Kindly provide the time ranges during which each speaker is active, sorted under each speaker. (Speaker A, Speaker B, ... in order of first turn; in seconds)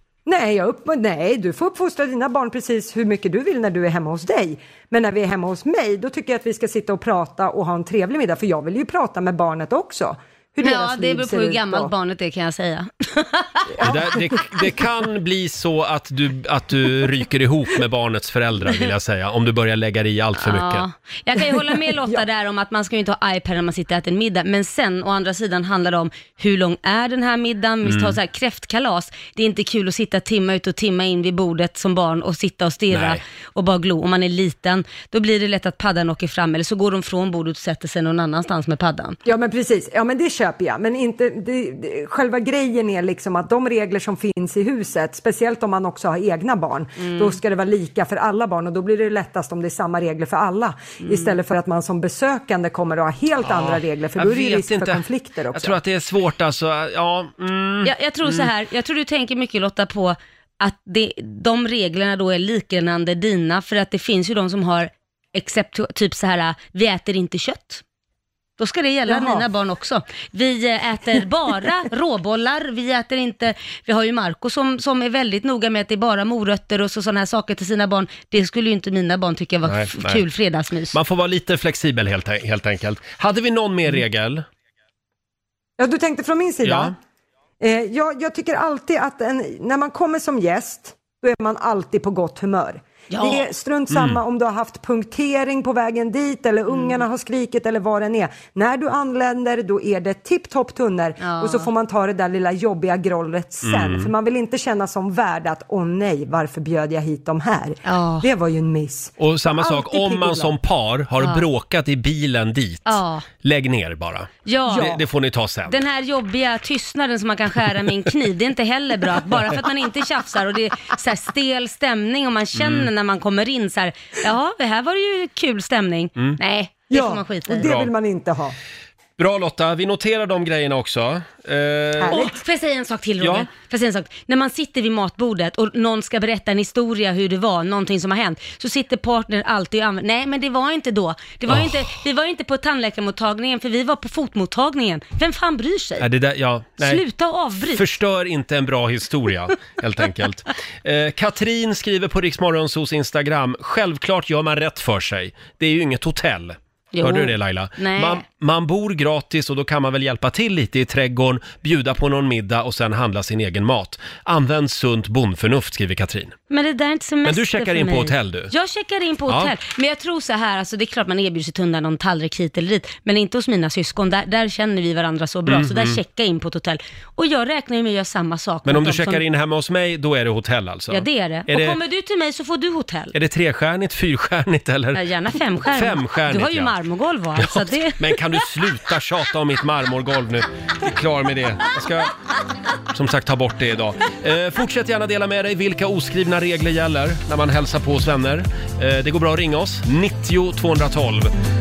Speaker A: 0.2-11.9, 13.7-14.4, 21.6-22.1, 39.2-55.8, 69.1-69.4, 85.8-87.0, 87.6-110.5, 114.7-115.0, 126.9-128.6, 132.0-132.3
Speaker B: 10.6-13.7, 20.4-39.2, 47.0-47.4, 51.0-51.4, 57.8-67.8, 68.6-81.0, 93.1-93.5, 96.7-97.0, 101.2-101.7, 107.8-108.3, 111.2-111.4, 112.8-113.2, 114.4-114.9, 115.7-127.7, 132.1-146.1, 146.8-147.8, 156.9-158.2, 166.5-179.2, 180.9-183.1, 184.9-188.2
Speaker C: 13.8-20.9, 27.8-28.2, 32.9-33.2, 53.4-58.5, 79.6-80.2, 80.9-84.5, 86.6-86.9, 93.9-94.2, 103.6-104.1, 109.2-115.8, 122.5-122.9, 127.6-127.9, 129.2-132.3, 133.2-133.5, 141.5-141.9, 146.0-147.0, 147.7-166.3, 167.2-168.5, 169.3-169.5, 175.5-176.0, 178.6-181.8, 183.1-185.0, 185.7-186.8, 187.3-192.1, 192.9-201.3